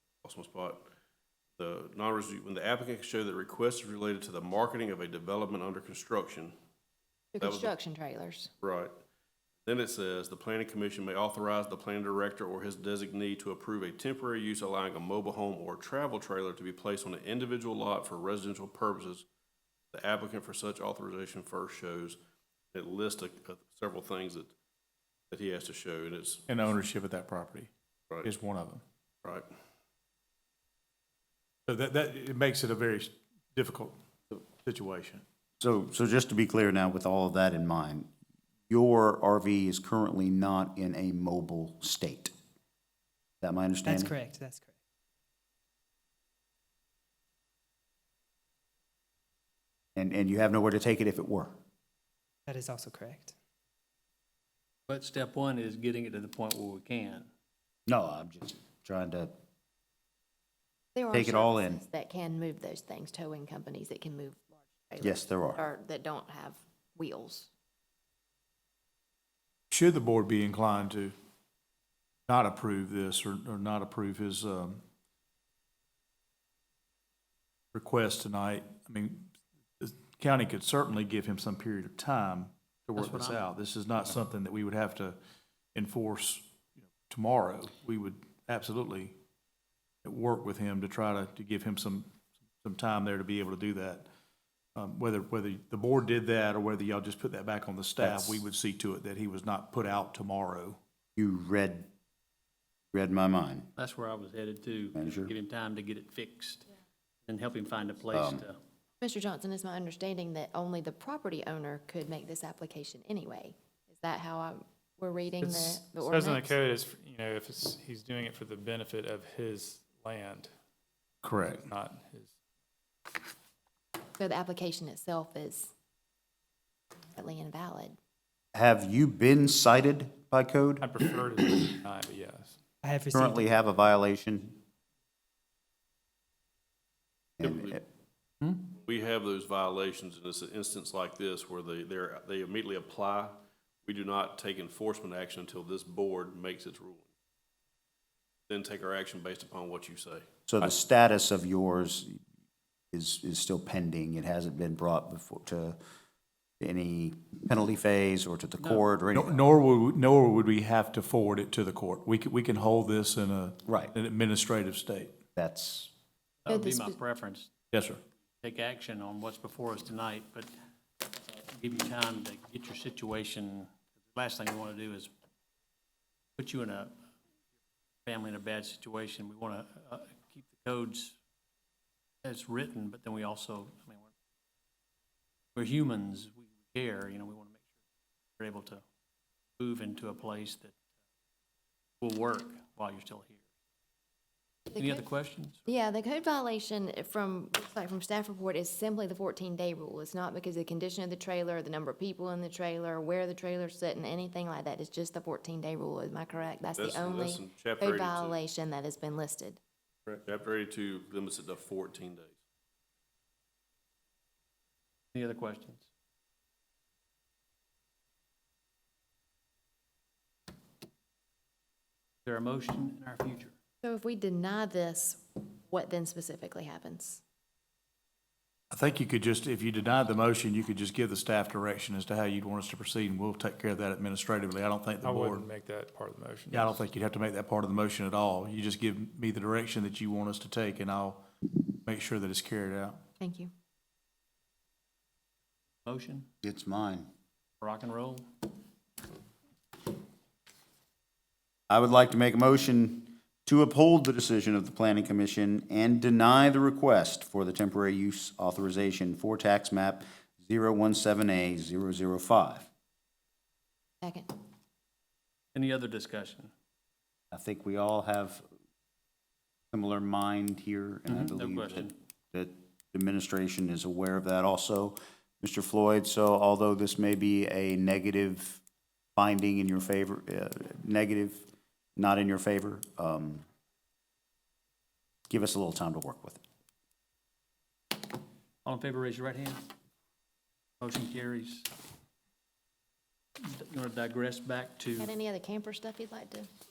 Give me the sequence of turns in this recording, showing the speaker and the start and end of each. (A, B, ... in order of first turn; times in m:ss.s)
0:00.2-0:00.8 A
0:01.6-0:06.5 A
0:07.4-0:08.5 B
0:07.4-0:07.7 A
0:08.6-0:08.9 A
0:09.6-0:19.2 A
0:19.9-0:22.2 A
0:22.7-0:24.5 A
0:25.3-0:26.4 A
0:26.5-0:27.7 C
0:28.2-0:28.8 C
0:31.7-0:35.2 C
0:35.6-0:38.1 D
0:38.7-0:42.3 D
0:43.4-0:44.1 D
0:43.8-0:44.8 E
0:50.0-0:51.5 D
0:52.5-0:53.3 E
0:54.9-0:57.3 F
0:57.9-0:59.3 D
1:01.0-1:07.5 B
1:01.1-1:01.8 D
1:05.0-1:05.6 D
1:09.7-1:11.1 C
1:12.3-1:14.8 C
1:17.7-1:25.2 C
1:23.0-1:23.4 F
1:25.7-1:29.1 C
1:30.0-1:34.1 C
1:34.8-1:40.8 C
1:38.0-1:38.4 D
1:41.2-1:41.9 D
1:42.9-1:43.7 D
1:43.8-1:46.7 F
1:45.0-1:45.3 D
1:47.2-1:48.6 F
1:48.1-1:48.4 D
1:49.0-1:56.5 B
1:55.4-2:00.5 G
2:01.2-2:01.7 C
2:01.6-2:02.3 G
2:04.2-2:05.7 B
2:07.2-2:08.0 B
2:08.5-2:10.8 D
2:10.8-2:12.6 G
2:12.8-2:13.5 E
2:13.1-2:14.6 D
2:17.4-2:17.8 D
2:17.4-2:17.8 A
2:18.7-2:27.1 A
2:28.5-2:30.7 A
2:30.5-2:32.2 D
2:32.9-2:35.8 D
2:36.6-2:39.4 D
2:38.6-2:38.8 F
2:39.1-2:45.2 C
2:43.7-2:43.9 D
2:45.4-2:45.9 D
2:46.4-2:47.5 F
2:46.5-2:47.0 B
2:47.7-2:48.0 C
2:48.4-2:50.5 F
2:51.2-2:55.1 F
2:56.4-2:57.0 F
2:58.0-3:01.2 F
3:02.2-3:04.1 F
3:05.6-3:07.6 F
3:08.4-3:08.8 F
3:09.6-3:10.8 F
3:12.0-3:13.4 F
3:14.7-3:15.0 B
3:14.8-3:15.6 F
3:15.6-3:29.6 B
3:26.8-3:28.4 A
3:30.2-3:32.4 A
3:35.1-3:35.9 F
3:42.2-3:43.6 F
3:43.8-3:47.2 B
3:48.7-3:55.5 C
3:55.0-3:56.8 G
3:56.5-4:03.0 C
4:03.2-4:03.5 B
4:05.8-4:06.3 F
4:06.4-4:07.1 D
4:07.6-4:08.3 F
4:11.7-4:22.7 D
4:24.0-4:24.3 B
4:25.5-4:26.5 F
4:27.3-4:28.4 D
4:29.7-4:38.6 D
4:31.1-4:32.0 F
4:39.2-4:43.4 D
4:45.3-4:46.4 D
4:48.6-4:49.7 F
4:50.8-4:51.7 F
4:53.4-4:55.1 F
4:54.9-4:56.5 B